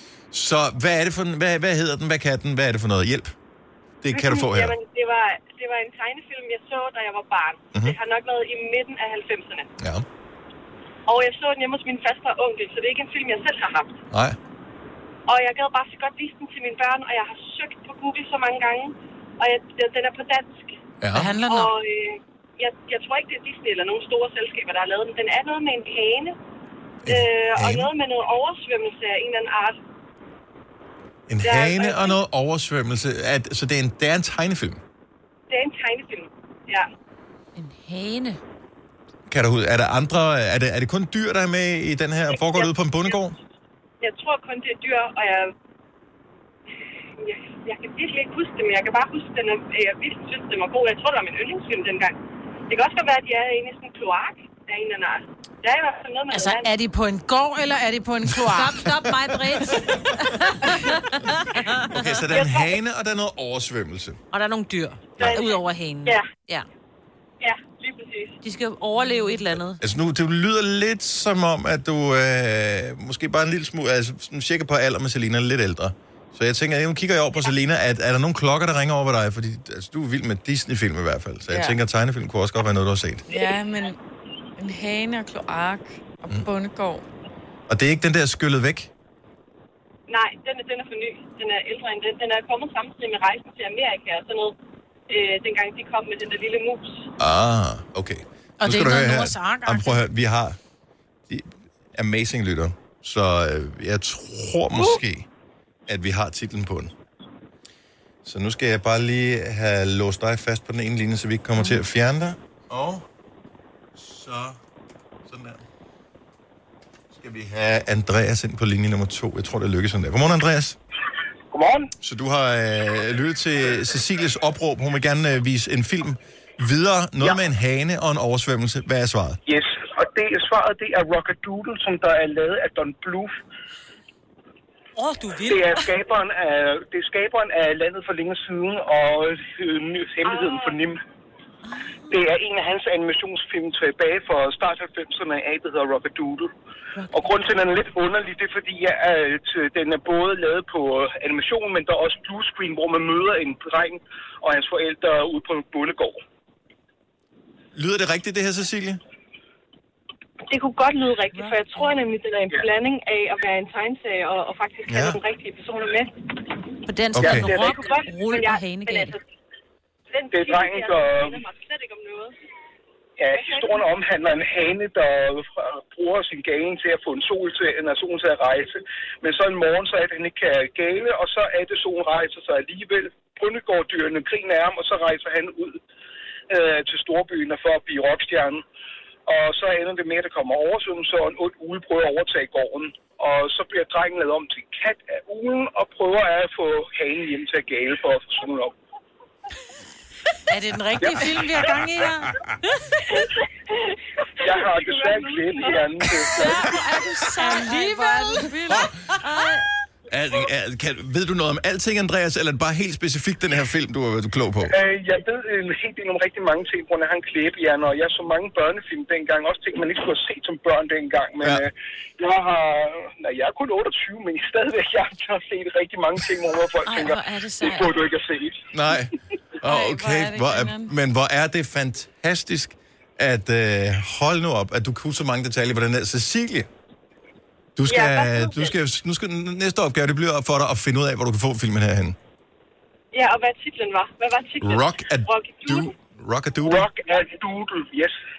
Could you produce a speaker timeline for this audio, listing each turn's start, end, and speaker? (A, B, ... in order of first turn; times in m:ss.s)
0:00.3-0:03.3 A
0:04.0-0:04.8 A
0:04.1-0:09.7 B
0:09.8-0:10.0 A
0:11.1-0:13.9 B
0:14.1-0:14.4 A
0:15.3-0:20.7 B
0:21.0-0:21.3 A
0:21.1-0:21.7 C
0:21.4-0:26.3 B
0:27.0-0:27.9 A
0:27.1-0:29.8 B
0:31.3-0:34.8 A
0:31.4-0:32.2 B
0:35.5-0:36.9 B
0:37.6-0:38.4 D
0:39.3-0:43.4 A
0:42.3-0:43.2 B
0:44.0-0:45.5 B
0:47.2-0:52.2 B
0:52.7-0:56.7 B
0:56.3-0:58.8 C
0:58.5-1:00.0 D
1:01.9-1:04.2 A
1:02.3-1:02.7 B
1:04.3-1:06.6 D
1:05.2-1:06.2 B
1:07.4-1:08.4 B
1:08.4-1:09.8 D
1:09.8-1:23.4 A
1:21.5-1:21.8 E
1:23.3-1:24.0 E
1:24.6-1:27.1 E
1:27.7-1:28.9 A
1:30.1-1:34.5 B
1:35.1-1:37.1 B
1:37.2-1:40.6 A
1:38.6-1:40.0 C
1:41.3-1:45.3 A
1:45.9-1:46.9 A
1:48.2-1:53.0 A
1:54.0-1:54.6 A
1:55.2-1:55.6 A
1:57.1-2:00.8 A
2:01.5-2:01.9 F
2:02.0-2:09.4 A
2:09.4-2:13.4 F
2:15.0-2:15.8 C
2:15.4-2:21.0 F
2:20.2-2:20.8 B
2:22.1-2:26.5 F
2:27.0-2:27.3 D
2:27.1-2:36.2 F
2:37.7-2:39.0 A
2:40.5-2:46.1 B
2:44.9-2:45.2 A
2:46.9-2:49.2 D
2:47.2-2:47.5 A
2:47.2-2:48.0 F
2:47.7-2:49.2 B
2:50.1-2:52.3 B
2:50.3-2:51.4 F
2:53.2-3:05.8 F
2:53.3-2:53.9 B
3:06.5-3:08.6 F
3:09.2-3:18.7 F
3:20.5-3:22.3 C
3:21.0-3:21.7 F
3:24.4-3:26.3 B
3:24.4-3:26.5 F
3:26.3-3:28.5 D
3:27.4-3:28.0 C
3:27.6-3:28.9 E
3:29.2-3:29.6 D
3:30.1-3:34.7 A
3:34.6-3:48.6 F
3:46.8-3:48.0 D
3:48.7-3:56.7 A
3:49.6-3:50.9 E
3:57.8-4:02.2 A
3:57.9-3:58.7 B
4:03.1-4:05.9 B
4:04.6-4:06.9 A
4:06.6-4:08.1 F